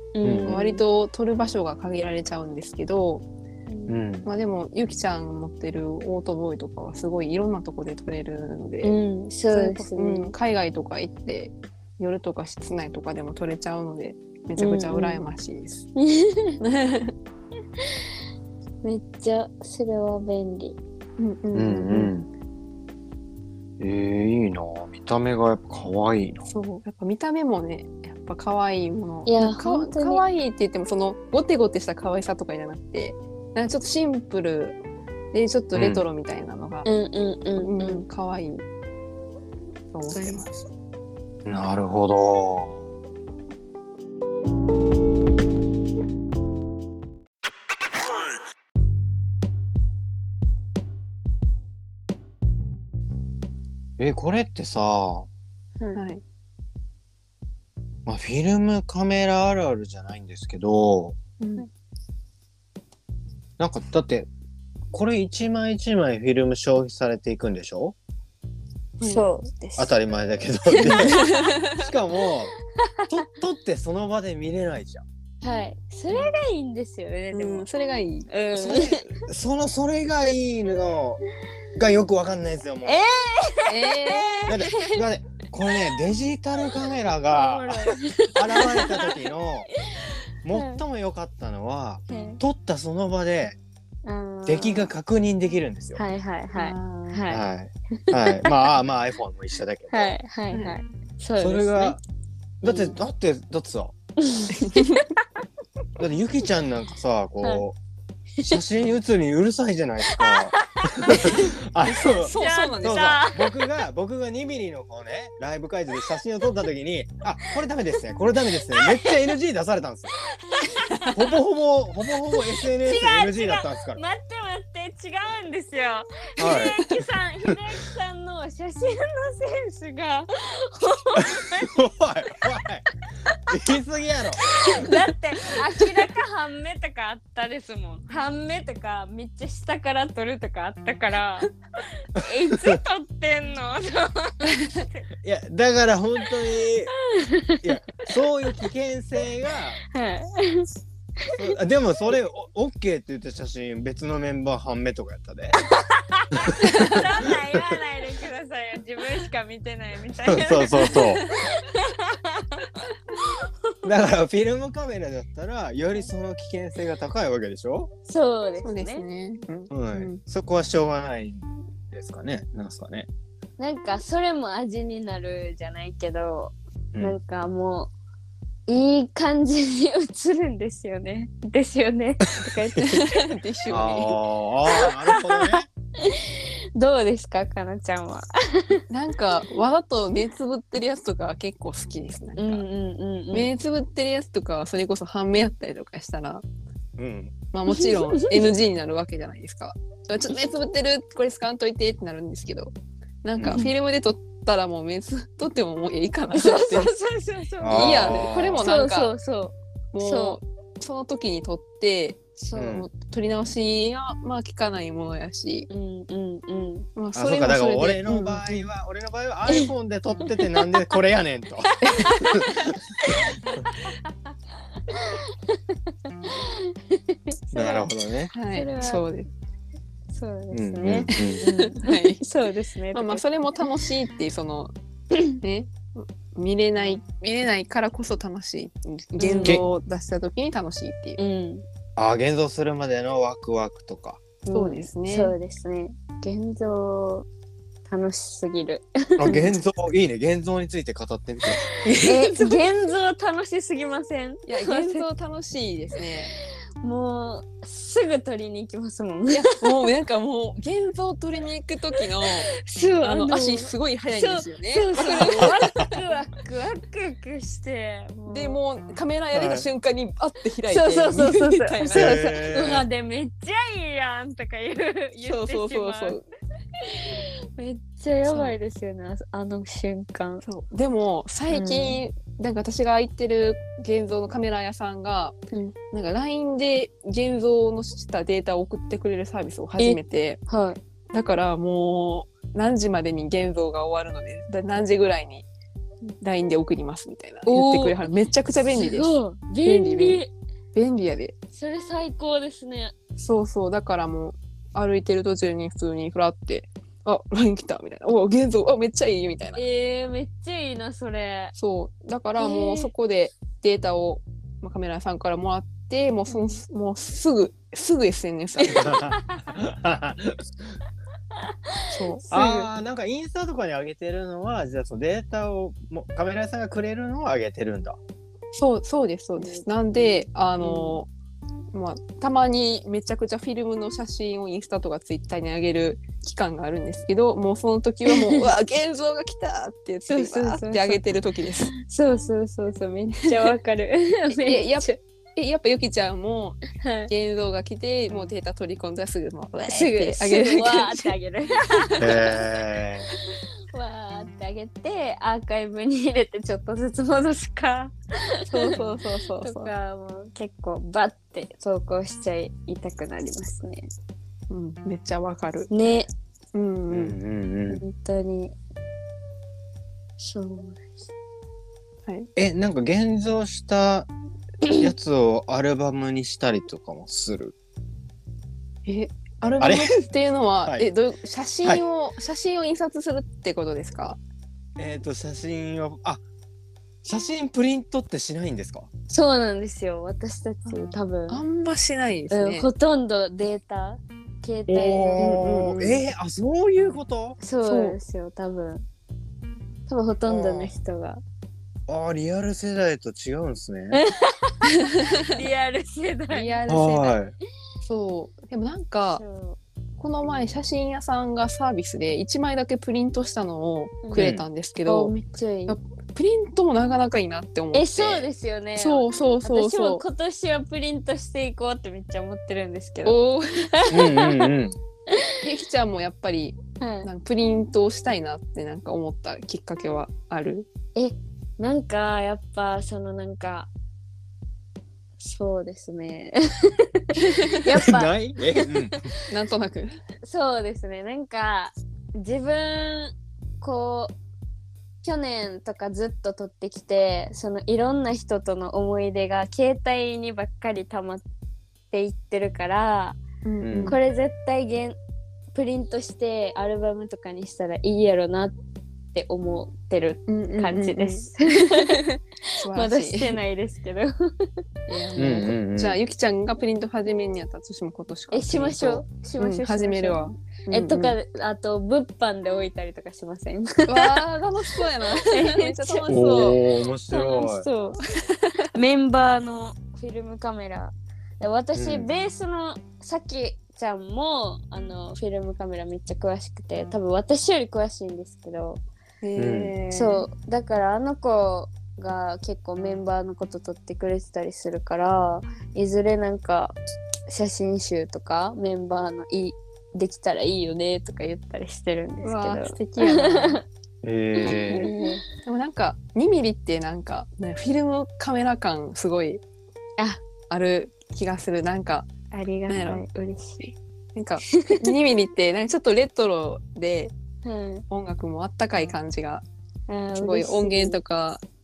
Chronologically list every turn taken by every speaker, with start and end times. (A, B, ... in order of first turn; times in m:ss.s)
0:00.1-0:00.8 A
0:00.2-0:00.6 B
0:00.4-0:03.2 C
0:03.7-0:04.0 A
0:03.9-0:04.3 B
0:04.2-0:09.0 C
0:08.8-0:10.3 A
0:09.5-0:15.9 C
0:14.6-0:15.2 A
0:16.0-0:16.6 A
0:16.6-0:17.1 C
0:18.8-0:20.8 A
0:21.2-0:22.1 C
0:21.5-0:22.3 B
0:23.8-0:26.5 B
0:26.5-0:34.8 C
0:29.2-0:30.2 A
0:35.3-0:36.9 C
0:35.7-0:36.0 B
0:36.8-0:38.0 A
0:37.6-0:38.6 C
0:39.9-0:40.5 C
0:40.1-0:40.4 A
0:41.4-0:42.8 B
0:54.0-0:55.3 B
0:55.9-0:56.2 C
0:58.0-1:01.2 B
1:01.4-1:01.6 C
1:03.6-1:04.3 B
1:04.9-1:08.0 B
1:09.0-1:09.2 C
1:09.0-1:09.9 A
1:09.8-1:12.5 B
1:10.8-1:11.7 C
1:10.8-1:11.4 A
1:13.1-1:15.0 B
1:15.4-1:17.7 A
1:17.3-1:18.3 C
1:18.3-1:19.0 A
1:18.5-1:21.2 B
1:21.7-1:23.0 B
1:22.8-1:25.0 A
1:23.7-1:24.5 C
1:24.5-1:29.7 B
1:27.3-1:29.1 A
1:30.4-1:33.6 B
1:30.5-1:30.8 A
1:32.1-1:32.4 A
1:34.0-1:34.9 A
1:34.4-1:36.0 B
1:36.0-1:37.4 A
1:36.6-1:37.2 C
1:37.3-1:40.1 B
1:38.1-1:38.5 A
1:39.9-1:42.0 A
1:40.5-1:40.8 C
1:41.4-1:42.0 B
1:42.6-1:43.9 B
1:42.6-1:42.9 A
1:44.2-1:45.2 A
1:44.5-1:45.0 C
1:46.0-1:47.8 B
1:48.4-2:00.1 B
1:50.1-1:51.2 A
1:51.2-1:53.2 C
1:52.4-1:53.5 A
1:58.8-1:59.1 A
2:00.4-2:01.2 A
2:01.1-2:04.0 B
2:02.6-2:11.8 A
2:06.4-2:06.8 B
2:11.6-2:12.8 B
2:13.5-2:14.4 B
2:14.5-2:21.5 A
2:22.1-2:25.0 A
2:22.5-2:22.8 B
2:25.2-2:26.9 B
2:27.1-2:27.7 A
2:27.6-2:29.8 B
2:29.9-2:30.7 A
2:31.4-2:35.6 B
2:35.9-2:43.5 A
2:36.4-2:37.0 B
2:40.2-2:41.2 B
2:43.8-2:47.9 B
2:48.0-2:49.0 A
2:48.6-2:50.2 C
2:49.7-2:53.1 B
2:53.6-2:57.9 A
2:58.7-3:03.3 A
3:02.8-3:04.2 C
3:03.7-3:05.7 B
3:04.7-3:05.2 A
3:06.0-3:08.8 A
3:08.9-3:12.6 C
3:12.4-3:13.5 A
3:13.3-3:16.4 C
3:17.0-3:17.3 B
3:17.5-3:22.7 C
3:17.7-3:18.4 A
3:23.2-3:26.9 C
3:23.4-3:23.7 B
3:26.3-3:30.4 A
3:27.6-3:28.6 B
3:27.7-3:29.1 C
3:29.9-3:35.7 C
3:32.4-3:32.8 A
3:32.6-3:32.9 B
3:35.7-3:36.9 A
3:37.0-3:38.7 C
3:37.1-3:42.8 B
3:41.9-3:42.4 A
3:44.9-3:45.8 A
3:46.3-3:47.9 A
3:47.5-3:48.3 B
3:48.3-3:49.3 C
3:48.5-3:49.0 A
3:50.1-3:53.2 A
3:50.5-3:51.4 B
3:51.1-3:52.2 C
3:52.9-3:54.7 C
3:55.1-3:55.4 A
3:55.4-4:01.2 C
3:59.2-3:59.6 A
4:01.2-4:01.6 A
4:02.0-4:04.2 B
4:04.4-4:07.3 A
4:04.5-4:05.3 C
4:07.9-4:09.4 A
4:09.2-4:11.8 B
4:09.3-4:09.6 C
4:11.8-4:12.6 C
4:12.0-4:15.0 A
4:14.4-4:16.3 C
4:16.8-4:19.6 A
4:19.3-4:25.6 C
4:22.6-4:28.6 A
4:25.4-4:25.9 B
4:28.3-4:32.3 C
4:29.3-4:29.7 B
4:30.7-4:36.2 A
4:31.9-4:32.8 B
4:35.2-4:36.2 C
4:36.8-4:40.4 A
4:38.3-4:38.6 C
4:40.4-4:45.4 C
4:41.5-4:42.0 A
4:45.9-4:50.4 C
4:49.8-4:50.8 A
4:51.1-4:55.4 C
4:56.2-4:59.1 C
4:57.4-4:58.0 A
4:58.7-5:00.3 A
4:59.6-5:00.2 C
5:00.7-5:01.3 C
5:01.5-5:02.9 A
5:03.2-5:09.6 C
5:09.5-5:11.5 A
5:11.6-5:18.9 C
5:12.4-5:12.9 A
5:16.3-5:16.6 A
5:18.7-5:20.7 B
5:18.8-5:19.5 A
5:21.8-5:22.7 A
5:21.9-5:22.2 C
5:22.3-5:28.0 B
5:28.5-5:31.1 C
5:29.4-5:31.0 A
5:31.7-5:41.7 C
5:38.1-5:38.4 A
5:40.1-5:41.0 A
5:41.8-5:45.0 A
5:44.3-5:51.1 C
5:46.8-5:47.1 A
5:49.6-5:52.4 A
5:52.0-5:53.1 B
5:53.7-6:03.9 A
5:58.5-5:59.7 C
6:04.5-6:05.7 C
6:05.7-6:06.1 A
6:06.5-6:07.2 C
6:06.9-6:07.8 B
6:07.7-6:08.6 A
6:10.2-6:10.9 A
6:12.4-6:14.1 B
6:14.6-6:14.9 A
6:14.7-6:17.5 B
6:18.8-6:24.2 C
6:19.6-6:19.9 B
6:24.8-6:26.2 B
6:27.0-6:28.9 B
6:29.1-6:31.4 A
6:30.6-6:32.7 C
6:32.3-6:35.4 A
6:34.7-6:36.0 C
6:34.8-6:37.4 B
6:37.4-6:38.8 A
6:37.6-6:38.0 C
6:39.9-6:41.2 A
6:40.3-6:40.7 B
6:41.9-6:44.0 B
6:43.9-6:44.6 A
6:45.2-6:46.6 A
6:46.3-6:47.1 C
6:46.7-6:47.3 B
6:47.8-6:49.2 C
6:49.1-6:49.6 A
6:50.0-6:55.1 C
6:50.2-6:50.5 A
6:54.0-6:54.3 A
6:54.2-6:54.4 B
6:54.8-6:55.8 A
6:55.7-7:00.0 C
6:57.7-7:03.2 A
7:03.0-7:03.6 C
7:03.7-7:04.3 A
7:03.9-7:04.8 B
7:05.4-7:10.7 C
7:06.8-7:07.1 A
7:11.0-7:13.7 A
7:15.2-7:18.7 A
7:17.2-7:17.5 C
7:17.7-7:19.1 B
7:19.3-7:19.9 C
7:20.2-7:24.1 A
7:25.0-7:31.2 A
7:31.9-7:33.2 A
7:33.4-7:34.0 C
7:33.6-7:34.0 B
7:33.8-7:35.0 A
7:35.5-7:38.5 A
7:39.1-7:44.5 A
7:40.3-7:41.9 C
7:42.6-7:43.4 C
7:44.9-7:51.2 C
7:45.2-7:46.0 B
7:48.3-7:54.2 A
7:53.9-7:56.6 C
7:55.1-7:58.0 A
7:56.1-7:57.7 B
7:58.7-8:08.8 A
8:01.7-8:02.1 B
8:09.2-8:10.2 C
8:09.4-8:09.7 B
8:09.9-8:16.8 A
8:17.3-8:23.6 A
8:22.2-8:23.6 C
8:24.0-8:24.9 B
8:24.4-8:25.2 A
8:24.7-8:29.4 C
8:30.5-8:32.1 C
8:32.3-8:33.8 A
8:32.7-8:33.0 C
8:34.1-8:37.1 C
8:34.5-8:34.9 A
8:37.4-8:37.8 A
8:37.9-8:39.4 C
8:39.9-8:41.0 A
8:40.2-8:41.4 C